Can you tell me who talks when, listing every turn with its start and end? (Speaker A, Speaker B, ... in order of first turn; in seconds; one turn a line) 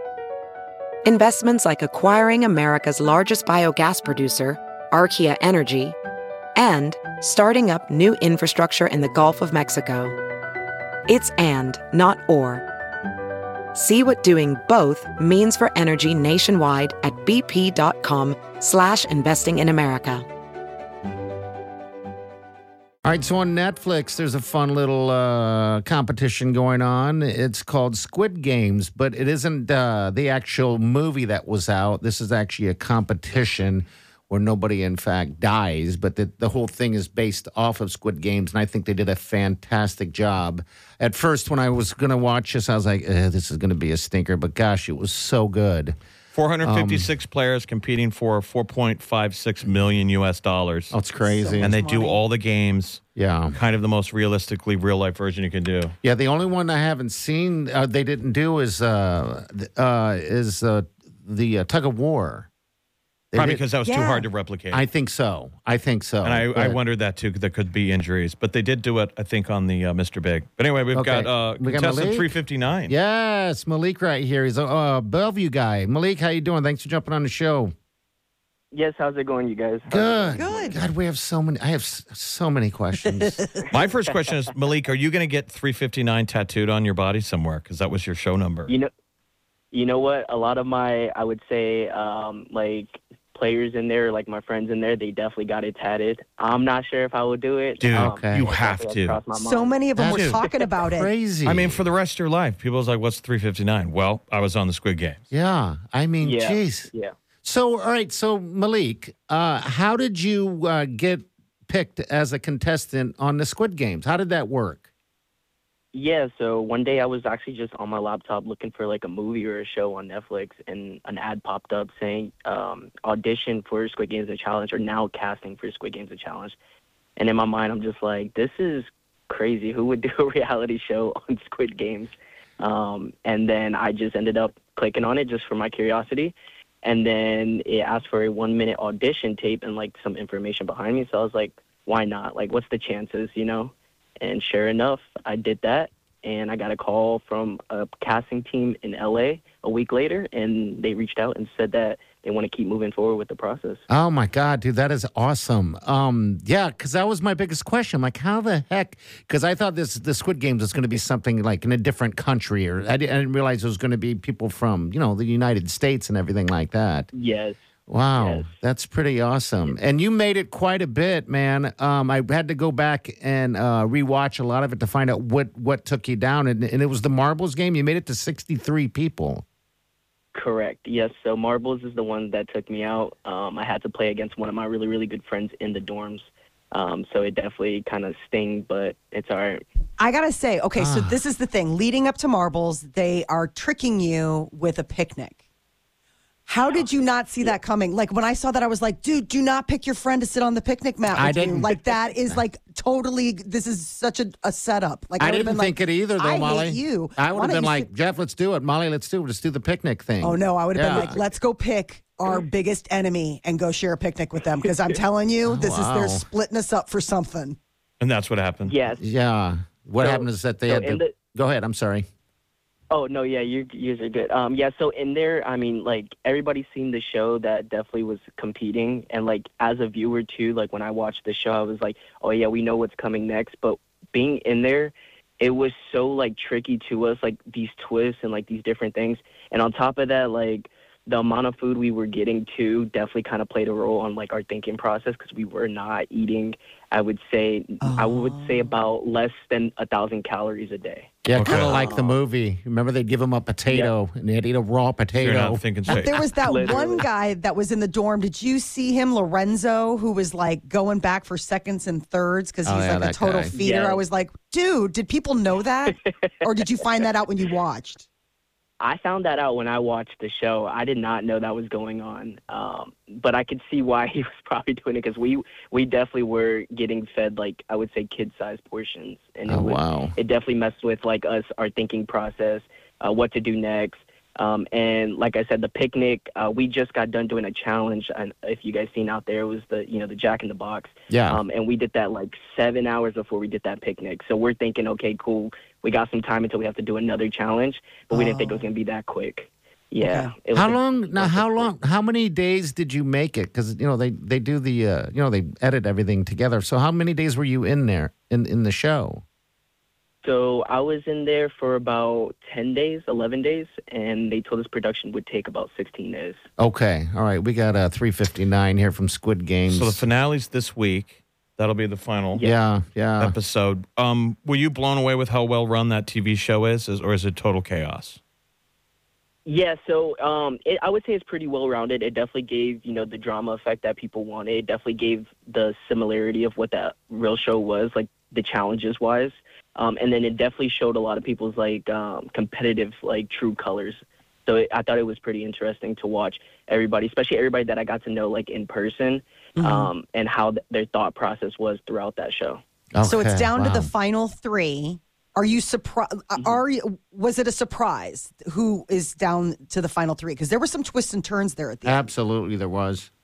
Speaker A: 1.0-6.0
Speaker A: 6.5-10.2
Speaker A: 11.1-12.6
Speaker A: 13.7-20.3
Speaker B: 23.0-46.0
Speaker C: 46.3-51.0
Speaker B: 46.6-47.1
Speaker B: 50.9-51.8
Speaker D: 51.2-52.2
Speaker C: 51.6-53.0
Speaker B: 53.1-53.6
Speaker C: 53.5-55.9
Speaker B: 56.0-62.5
Speaker B: 63.3-63.6
Speaker C: 63.3-64.8
Speaker D: 63.8-64.2
Speaker B: 64.7-66.8
Speaker C: 66.2-72.9
Speaker B: 70.9-72.3
Speaker B: 72.9-77.7
Speaker E: 78.7-80.8
Speaker B: 79.9-83.4
Speaker D: 80.3-80.8
Speaker C: 83.7-88.7
Speaker E: 89.7-99.8
Speaker C: 97.8-99.2
Speaker B: 97.9-98.5
Speaker D: 99.3-101.1
Speaker B: 100.0-101.8
Speaker C: 100.0-100.4
Speaker C: 101.4-105.2
Speaker B: 105.3-106.9
Speaker E: 106.2-107.1
Speaker B: 107.4-114.8
Speaker E: 115.9-126.6
Speaker E: 127.2-153.8
Speaker B: 153.9-167.1
Speaker E: 167.1-167.6
Speaker B: 167.9-179.4
Speaker E: 168.2-168.5
Speaker E: 180.3-189.6
Speaker D: 190.0-195.3
Speaker B: 190.8-191.2
Speaker D: 196.5-207.9
Speaker B: 201.1-202.4
Speaker B: 205.2-211.2
Speaker D: 210.2-217.6
Speaker B: 215.4-216.2
Speaker C: 218.0-218.7
Speaker E: 218.6-219.0
Speaker B: 219.0-222.1
Speaker E: 220.0-221.1
Speaker E: 222.9-252.2
Speaker D: 247.8-248.6
Speaker B: 251.2-256.0
Speaker C: 251.3-251.8
Speaker E: 253.7-253.9
Speaker C: 255.2-256.3
Speaker D: 255.9-268.1
Speaker E: 256.4-257.0
Speaker B: 262.6-263.6
Speaker E: 263.6-264.0
Speaker E: 268.8-301.7
Speaker B: 279.4-280.1
Speaker B: 291.1-291.4
Speaker D: 298.1-298.7
Speaker D: 300.0-300.3
Speaker B: 300.5-309.2
Speaker E: 310.2-316.4
Speaker B: 316.6-320.0
Speaker C: 319.7-322.4
Speaker B: 322.4-323.3
Speaker C: 323.2-328.2
Speaker E: 329.4-352.6
Speaker D: 349.6-349.9
Speaker B: 352.9-353.9
Speaker D: 353.0-362.1
Speaker B: 361.8-363.1